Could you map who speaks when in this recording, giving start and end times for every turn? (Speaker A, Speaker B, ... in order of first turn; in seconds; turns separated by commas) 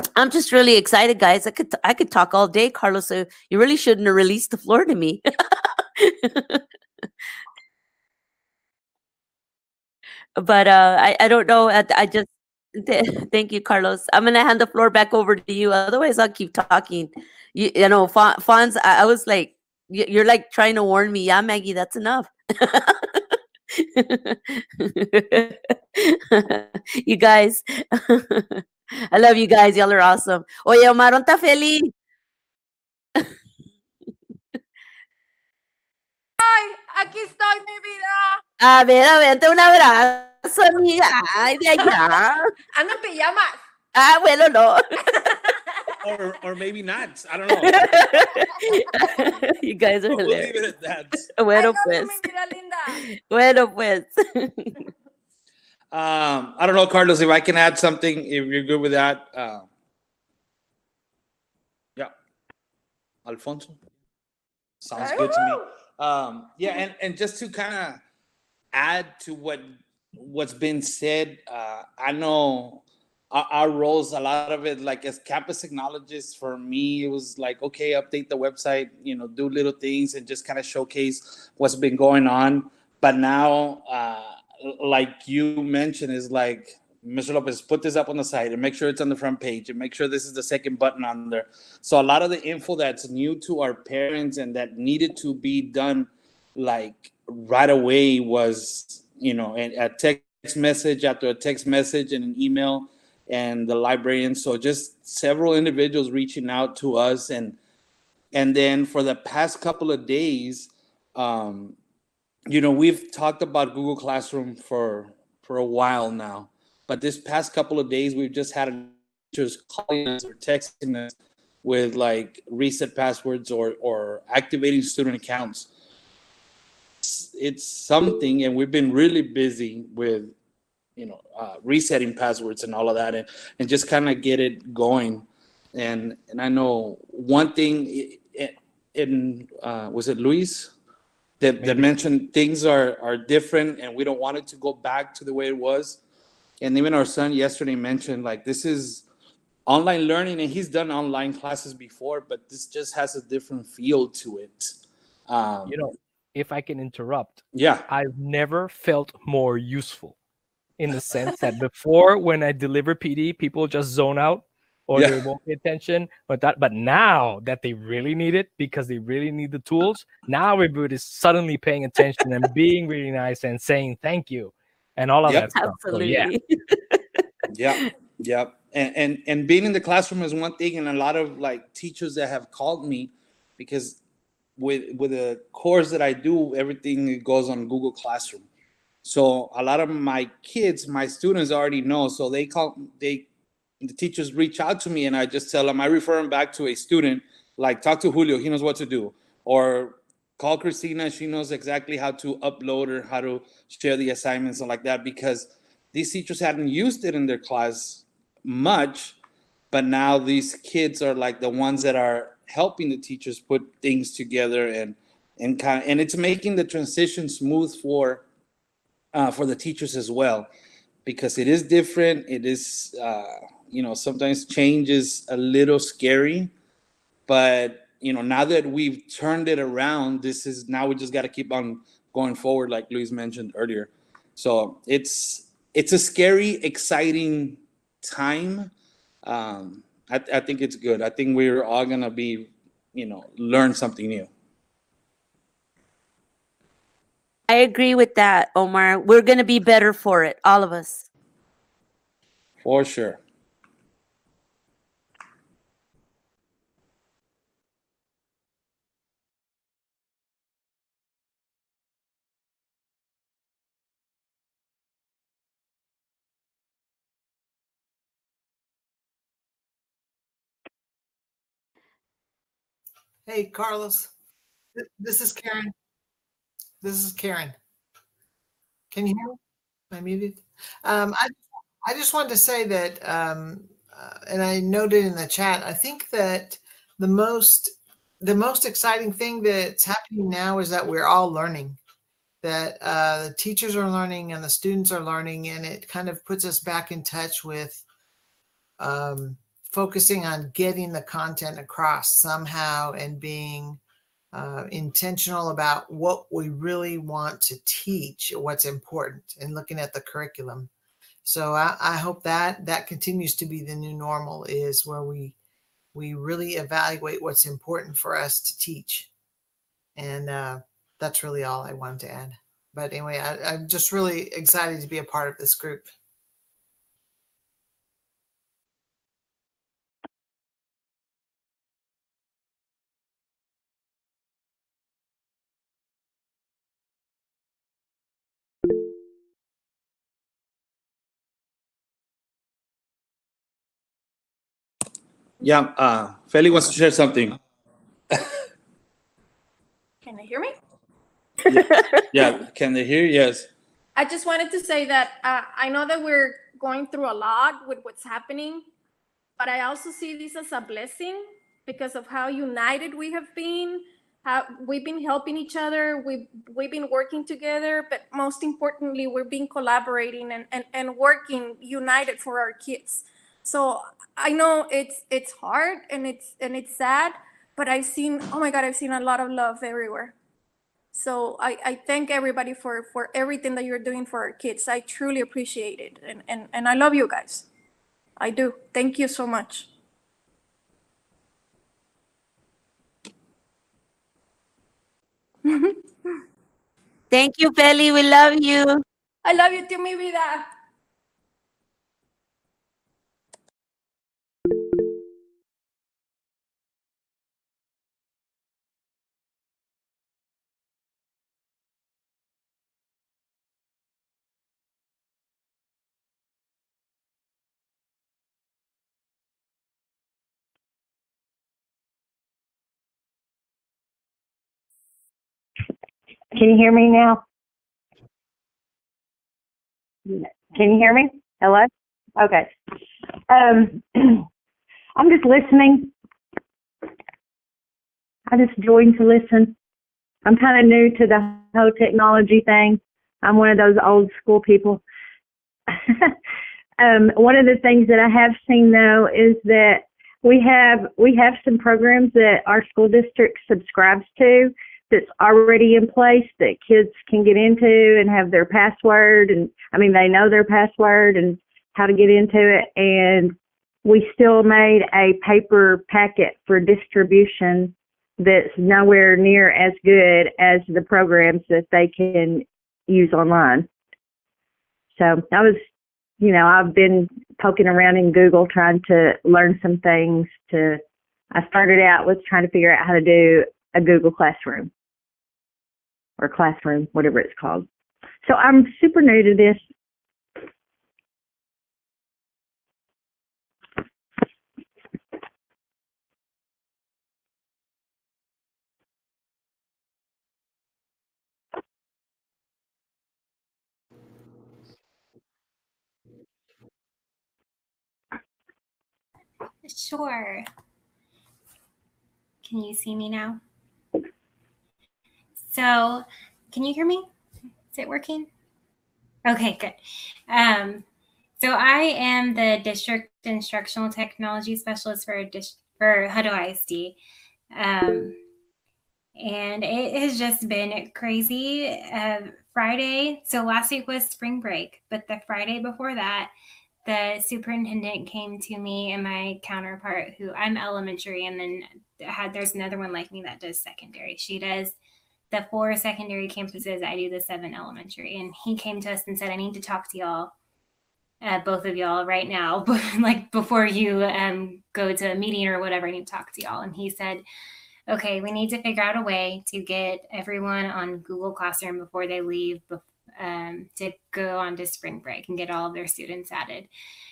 Speaker A: 0.2-6.6, Speaker A: 10.4-31.9, Speaker B: 36.4-38.4, Speaker A: 38.6-42.4, Speaker B: 42.7-43.6, Speaker A: 43.9-44.9, Speaker C: 46.0-47.7, Speaker A: 47.6-50.6, Speaker B: 47.8-48.2, Speaker C: 50.1-51.2, Speaker A: 51.3-52.2, Speaker B: 51.5-53.0, Speaker A: 52.9-54.7, Speaker C: 55.9-59.7, Speaker C: 63.3-63.8, Speaker C: 64.8-68.0, Speaker B: 64.9-65.6, Speaker C: 68.7-107.6, Speaker C: 108.3-111.8, Speaker C: 112.5-125.7, Speaker C: 127.0-130.3, Speaker C: 131.0-140.7, Speaker C: 141.4-146.0, Speaker D: 141.6-141.9, Speaker C: 146.6-149.1, Speaker C: 149.7-154.8, Speaker C: 155.3-155.8, Speaker D: 155.7-160.2, Speaker C: 157.5-157.8, Speaker D: 160.8-176.3, Speaker A: 175.5-177.1, Speaker C: 177.5-184.0, Speaker C: 184.6-188.4, Speaker C: 189.0-193.3, Speaker C: 193.8-209.2, Speaker C: 209.7-218.2, Speaker C: 219.1-220.5, Speaker C: 221.1-226.5, Speaker C: 227.3-238.7, Speaker C: 239.2-244.3, Speaker A: 247.5-251.1, Speaker C: 252.6-253.2, Speaker E: 273.3-274.1, Speaker E: 274.8-275.7, Speaker E: 276.8-277.6, Speaker E: 278.9-279.4, Speaker E: 279.9-291.8, Speaker E: 292.4-297.8, Speaker E: 298.8-303.8, Speaker E: 304.3-310.7, Speaker E: 311.2-315.4, Speaker E: 315.9-319.1, Speaker E: 320.0-325.9, Speaker C: 345.4-347.4, Speaker B: 350.0-350.6, Speaker A: 351.5-352.0, Speaker C: 351.5-353.5, Speaker B: 354.0-358.7, Speaker B: 359.4-380.1, Speaker B: 380.9-387.5, Speaker B: 388.2-389.7, Speaker B: 395.4-396.2, Speaker A: 397.1-398.8, Speaker B: 399.2-400.5, Speaker F: 426.3-427.2, Speaker F: 430.1-432.5, Speaker F: 433.3-434.2, Speaker F: 435.0-435.9, Speaker F: 438.3-439.6, Speaker F: 440.3-444.8, Speaker F: 445.8-446.1, Speaker F: 446.8-473.7, Speaker F: 475.0-475.6, Speaker F: 476.2-480.8, Speaker F: 481.3-484.7, Speaker F: 486.2-487.7, Speaker F: 488.2-489.6, Speaker G: 509.6-510.4, Speaker G: 512.4-513.4, Speaker G: 515.4-517.1, Speaker G: 517.7-518.3, Speaker G: 519.3-519.8, Speaker G: 520.3-520.8, Speaker G: 521.4-527.0, Speaker G: 527.5-528.2, Speaker G: 529.2-536.3, Speaker G: 536.9-544.8, Speaker G: 545.3-550.3, Speaker G: 551.2-557.2, Speaker G: 557.9-566.7